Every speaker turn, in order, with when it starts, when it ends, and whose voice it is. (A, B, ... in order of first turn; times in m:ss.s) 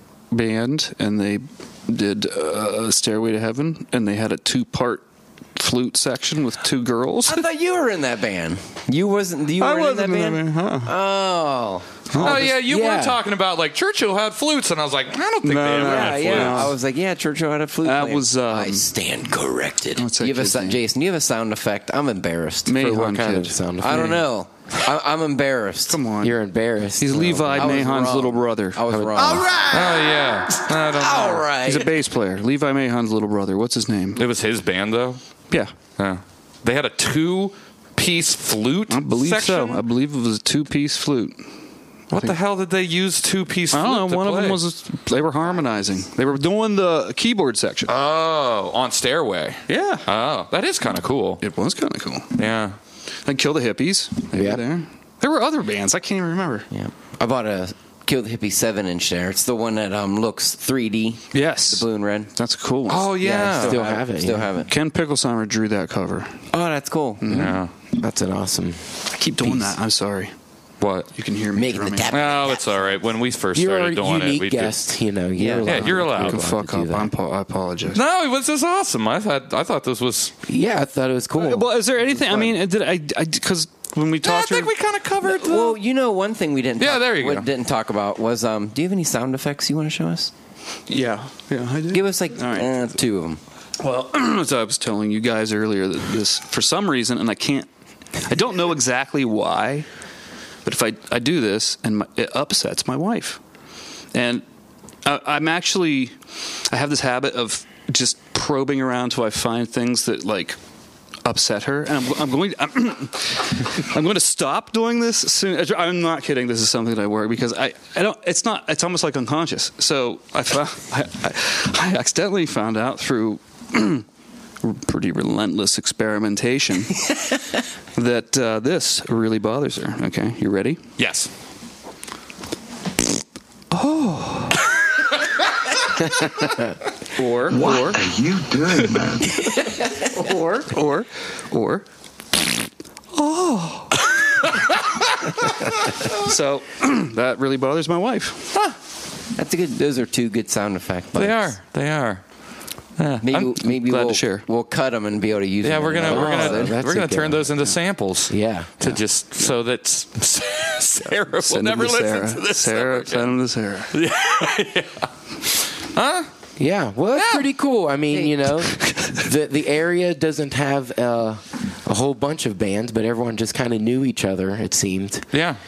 0:00.3-0:07.5 A
0:07.3-0:12.5 B
0:09.6-0:10.9 A
0:12.1-0:12.5 A
0:12.2-0:16.7 C
0:12.6-0:13.2 D
0:15.4-0:16.8 A
0:15.8-0:22.7 B
0:17.8-0:18.9 A
0:20.0-0:20.8 A
0:22.7-0:24.1 A
0:22.8-0:24.2 D
0:23.8-0:26.0 B
0:25.9-0:26.4 A
0:26.2-0:27.8 D
0:27.0-0:28.8 A
0:27.5-0:29.7 B
0:28.9-0:29.5 D
0:29.7-0:31.5 C
0:30.9-0:32.0 B
0:31.6-0:34.2 A
0:34.2-0:35.2 C
0:36.0-0:39.8 C
0:38.9-0:41.5 A
0:42.1-0:42.4 A
0:42.1-0:44.6 C
0:43.7-0:47.9 A
0:47.9-0:51.4 C
0:49.7-0:50.1 A
0:51.4-0:52.3 A
0:52.4-0:52.8 C
0:53.3-0:56.7 A
0:54.3-0:54.6 D
0:56.7-1:02.3 B
1:01.3-1:03.2 A
1:02.9-1:03.8 C
1:03.2-1:04.7 B
1:03.6-1:04.5 D
1:04.7-1:06.4 A
1:06.5-1:07.2 B
1:07.2-1:07.6 A
1:07.3-1:07.7 C
1:08.0-1:09.8 D
1:09.1-1:10.3 A
1:10.8-1:11.1 C
1:11.1-1:12.1 A
1:11.5-1:12.9 B
1:12.1-1:14.7 C
1:13.5-1:17.1 D
1:15.4-1:15.8 B
1:15.7-1:16.4 C
1:15.9-1:18.0 A
1:17.9-1:20.3 C
1:20.5-1:22.6 D
1:21.4-1:24.7 A
1:24.2-1:25.8 C
1:25.2-1:30.3 B
1:26.8-1:27.5 C
1:30.9-1:32.8 A
1:31.9-1:33.4 B
1:33.8-1:37.7 A
1:38.2-1:39.9 A
1:40.6-1:43.4 A
1:44.1-1:44.4 A
1:45.0-1:46.2 A
1:46.7-1:50.6 A
1:51.2-2:04.0 A
2:04.6-2:07.2 A
2:08.0-2:10.8 A
2:11.0-2:11.3 C
2:13.7-2:14.7 A
2:17.2-2:18.0 A
2:17.5-2:19.4 E
2:20.1-2:21.8 A
2:23.1-2:24.0 A
2:26.2-2:28.5 A
2:29.4-2:31.5 B
2:31.2-2:32.2 C
2:33.0-2:33.6 C
2:33.2-2:36.8 B
2:33.8-2:34.5 A
2:35.6-2:43.3 C
2:36.0-2:37.6 D
2:38.3-2:39.0 D
2:41.3-2:43.9 A
2:43.9-2:45.1 C
2:45.8-2:46.3 C
2:46.6-2:55.3 D
2:47.2-2:47.4 C
2:55.3-2:55.6 C